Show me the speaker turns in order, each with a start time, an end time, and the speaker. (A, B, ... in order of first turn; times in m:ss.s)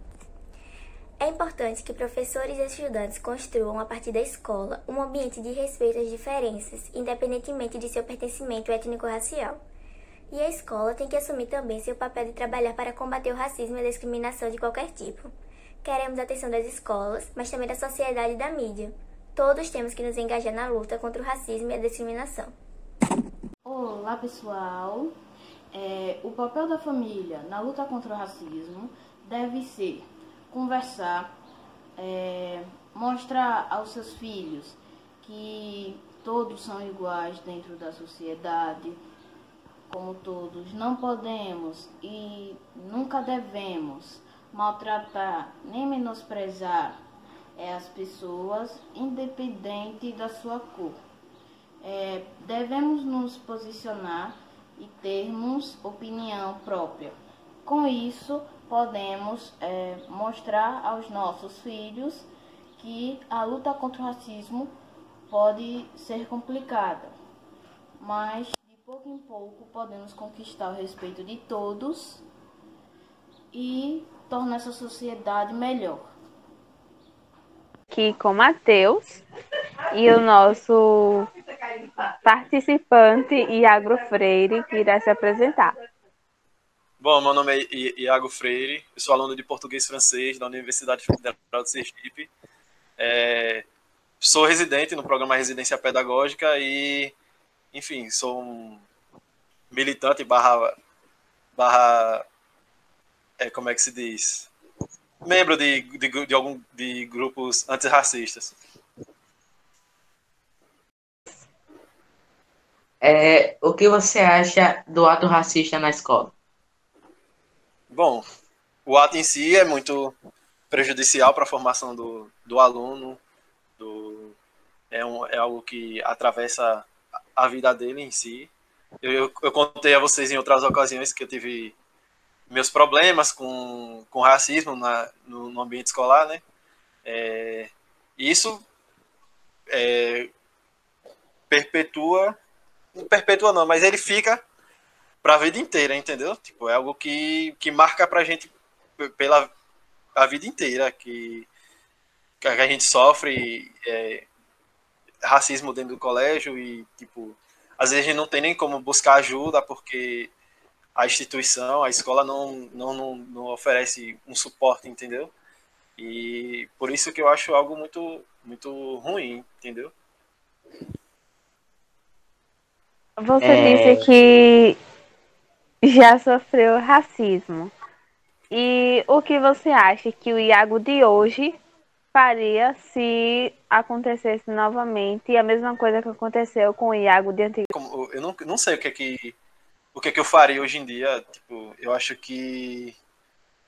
0:01.2-0:09.6 A
0:10.3-0:22.5 A
0:23.6-0:25.1 B
0:25.7-0:31.3 B
0:32.0-0:39.0 B
0:39.9-0:47.0 B
0:47.6-0:51.0 B
0:51.8-1:04.7 B
1:05.3-1:07.1 B
1:08.0-1:12.2 B
1:13.5-1:16.0 B
1:17.9-1:19.2 C
1:19.9-1:21.3 C
1:22.2-1:25.7 C
1:27.0-1:32.3 D
1:33.0-1:33.6 D
1:34.2-1:37.1 D
1:37.7-1:38.8 D
1:39.7-1:40.7 D
1:41.6-1:42.2 D
1:43.4-1:44.5 D
1:45.2-1:48.6 D
1:53.0-1:56.3 E
1:57.9-1:58.2 D
1:58.8-2:00.2 D
2:00.7-2:03.2 D
2:03.8-2:04.4 D
2:04.9-2:08.5 D
2:09.0-2:11.7 D
2:12.5-2:16.4 D
2:17.0-2:18.6 D
2:19.7-2:20.3 D
2:21.5-2:22.4 D
2:22.9-2:24.4 D
2:25.2-2:29.5 D
2:30.1-2:31.5 D
2:32.4-2:34.3 D
2:35.2-2:40.3 D
2:41.0-2:45.3 D
2:46.0-2:49.9 D
2:53.2-2:54.8 C
2:53.4-2:54.0 E
2:55.8-2:57.7 C
2:58.5-3:01.6 C
3:02.1-3:07.7 C
3:07.7-3:09.3 D
3:09.9-3:13.0 D